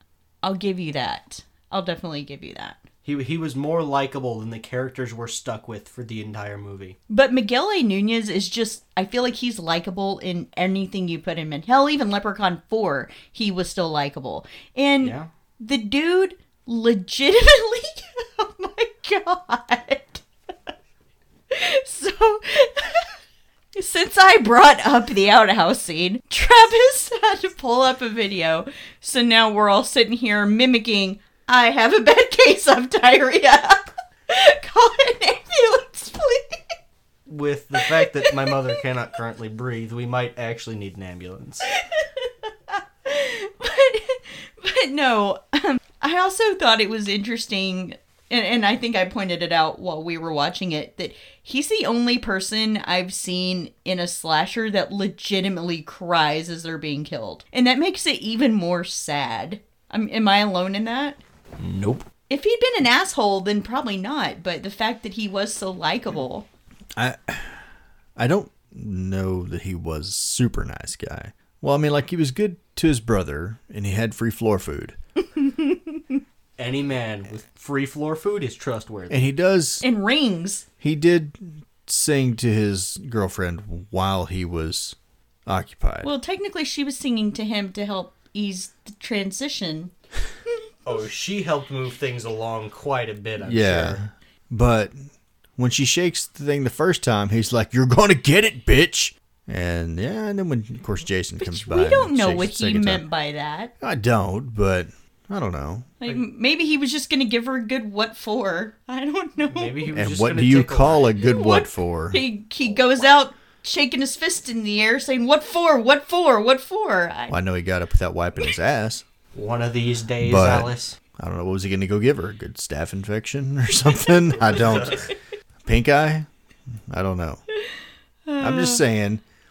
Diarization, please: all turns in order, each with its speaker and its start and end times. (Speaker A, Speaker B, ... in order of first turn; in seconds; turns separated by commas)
Speaker A: 0.4-2.8, Speaker B: 3.0-7.0, Speaker A: 7.1-20.2, Speaker B: 15.0-15.3, Speaker A: 21.5-23.1, Speaker A: 23.8-36.6, Speaker B: 37.3-41.7, Speaker A: 38.0-38.6, Speaker A: 41.7-61.2, Speaker B: 61.6-62.1, Speaker A: 62.3-66.5, Speaker C: 67.0-67.6, Speaker C: 68.2-75.0, Speaker A: 75.3-76.2, Speaker B: 76.6-79.2, Speaker C: 79.1-79.8, Speaker A: 79.8-80.7, Speaker C: 80.8-86.1, Speaker A: 86.0-89.9, Speaker B: 90.8-94.0, Speaker C: 93.4-103.0, Speaker A: 101.4-103.7, Speaker C: 103.8-105.9, Speaker A: 106.0-109.9, Speaker B: 109.5-111.0, Speaker C: 109.9-112.2, Speaker A: 111.2-117.4, Speaker C: 117.3-119.0, Speaker B: 119.3-121.0, Speaker C: 120.2-125.1, Speaker B: 124.5-125.1, Speaker C: 125.6-126.3, Speaker C: 126.9-127.4, Speaker A: 127.6-128.8, Speaker C: 128.4-129.2